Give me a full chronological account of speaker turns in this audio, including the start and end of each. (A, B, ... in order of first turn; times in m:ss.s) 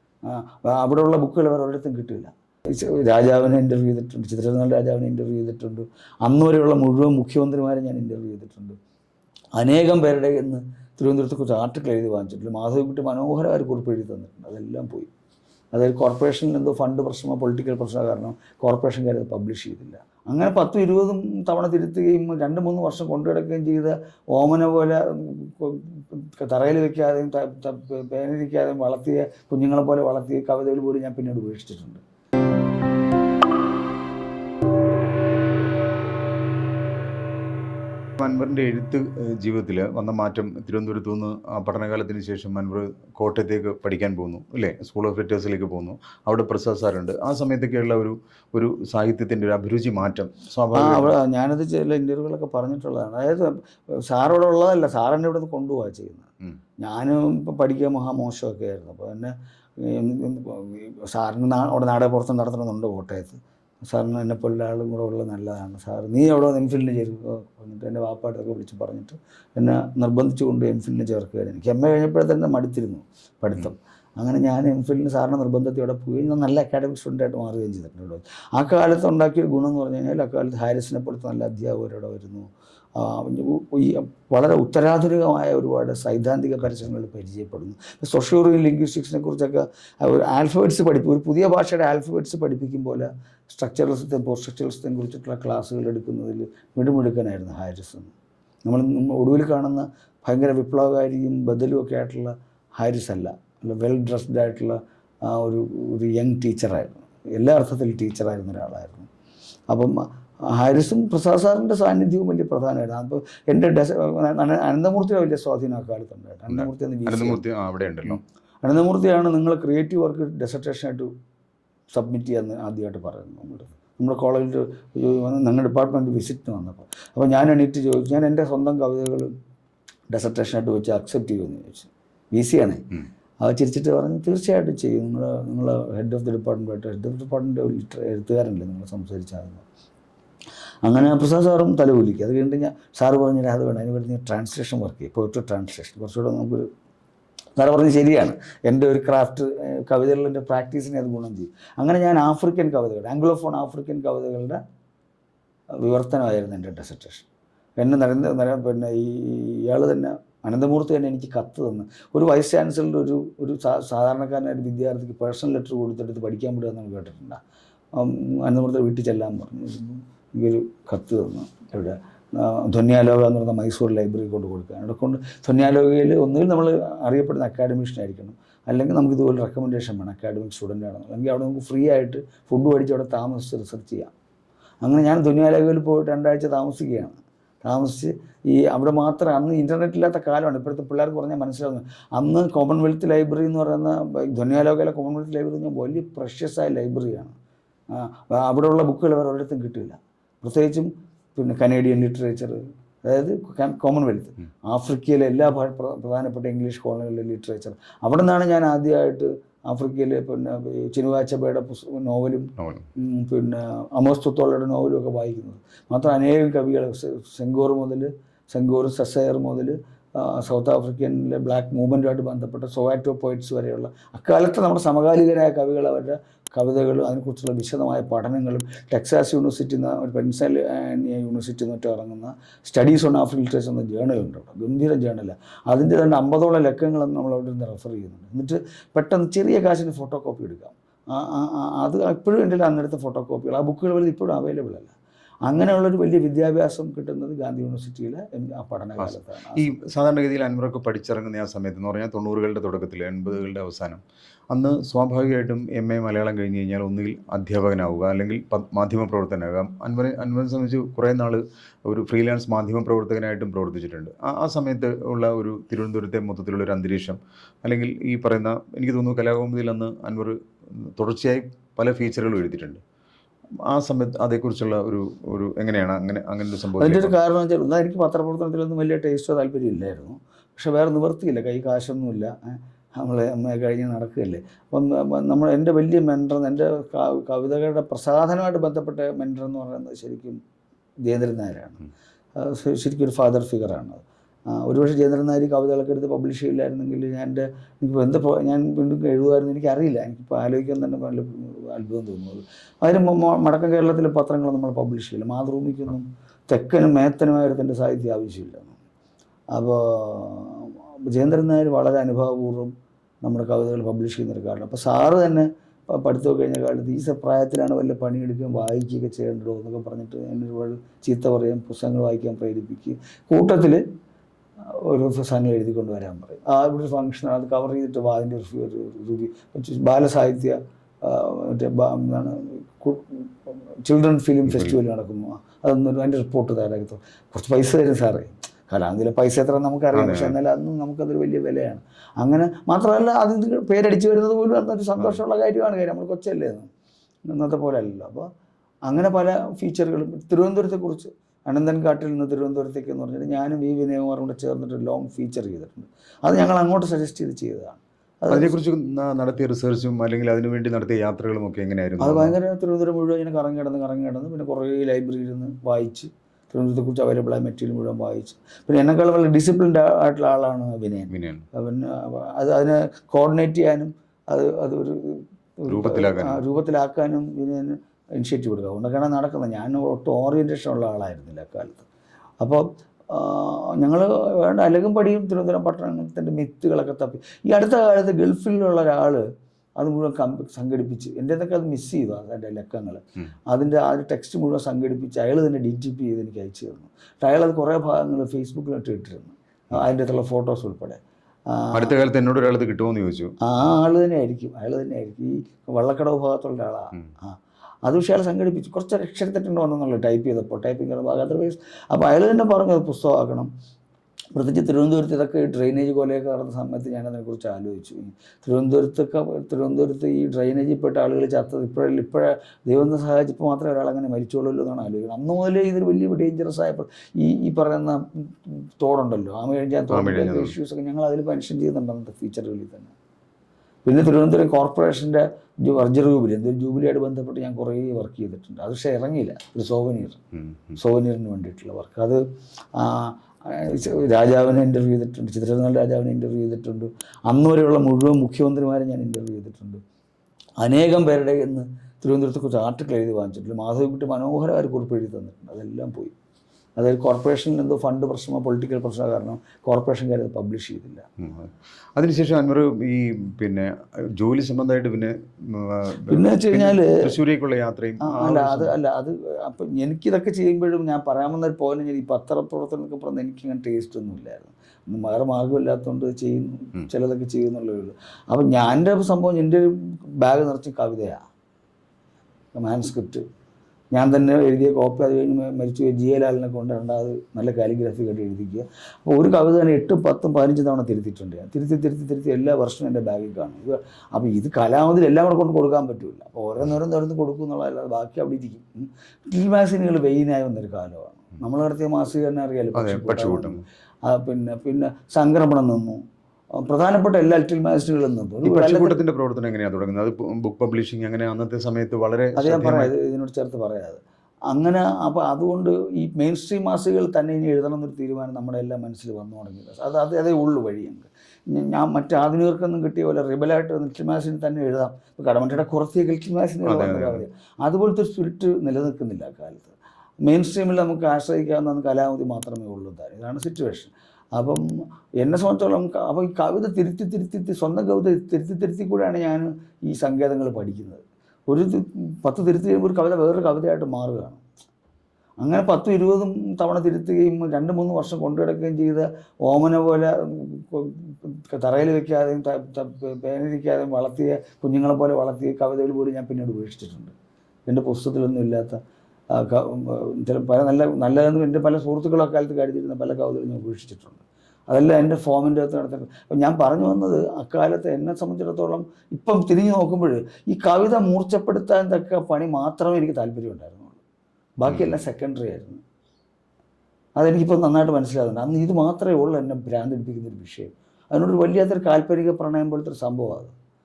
0:00.3-0:08.8 A
0:09.6-0:15.1 A
0:15.7-0:32.0 A
0:38.2-0:51.2 B
0:50.7-0:56.3 A
0:56.8-1:38.1 A
1:38.6-1:49.1 A
1:49.7-1:57.4 A
1:56.5-1:58.2 B
1:58.1-2:01.1 A
2:01.9-2:09.3 A
2:10.1-2:19.6 A
2:20.8-2:26.7 A
2:27.6-2:34.6 A
2:35.8-2:37.3 A
2:37.8-2:47.4 A
2:48.0-3:04.1 A
3:04.8-3:17.4 A
3:17.9-4:04.9 A
3:32.6-3:32.9 B
4:05.5-4:09.7 A
4:09.0-4:32.8 B
4:33.7-4:37.2 B
4:36.8-4:50.4 A
4:51.0-4:51.8 A
4:52.4-5:08.8 A
5:09.5-5:12.7 A
5:13.2-5:23.8 A
5:24.9-5:46.7 A
5:34.5-5:34.8 B
5:40.0-5:40.4 B
5:47.3-5:48.3 A
5:48.9-5:58.6 A
5:58.3-6:02.4 B
6:02.0-6:21.9 A
6:11.1-6:11.4 B
6:15.7-6:16.4 B
6:22.4-6:29.2 A
6:29.8-6:42.0 A
6:41.7-6:43.3 B
6:43.4-6:53.5 A
6:54.3-7:12.9 A
7:09.9-7:10.6 B
7:13.8-7:20.2 A
7:20.3-7:20.8 B
7:20.8-7:22.2 A
7:22.8-7:29.8 A
7:30.6-7:36.1 A
7:36.8-7:41.0 A
7:41.2-7:48.8 B
7:46.1-7:47.0 A
7:48.0-8:01.2 A
8:02.5-8:03.2 A
8:03.9-8:26.0 A
8:22.8-8:23.6 B
8:26.6-8:29.0 A
8:28.4-8:32.9 B
8:32.4-8:49.7 A
8:46.6-8:47.2 B
8:50.2-8:54.6 A
8:55.2-9:04.4 A
9:05.4-9:17.1 A
9:17.7-9:18.8 A
9:19.3-9:34.0 A
9:34.6-9:35.8 A
9:34.7-9:35.0 B
9:37.2-9:43.5 A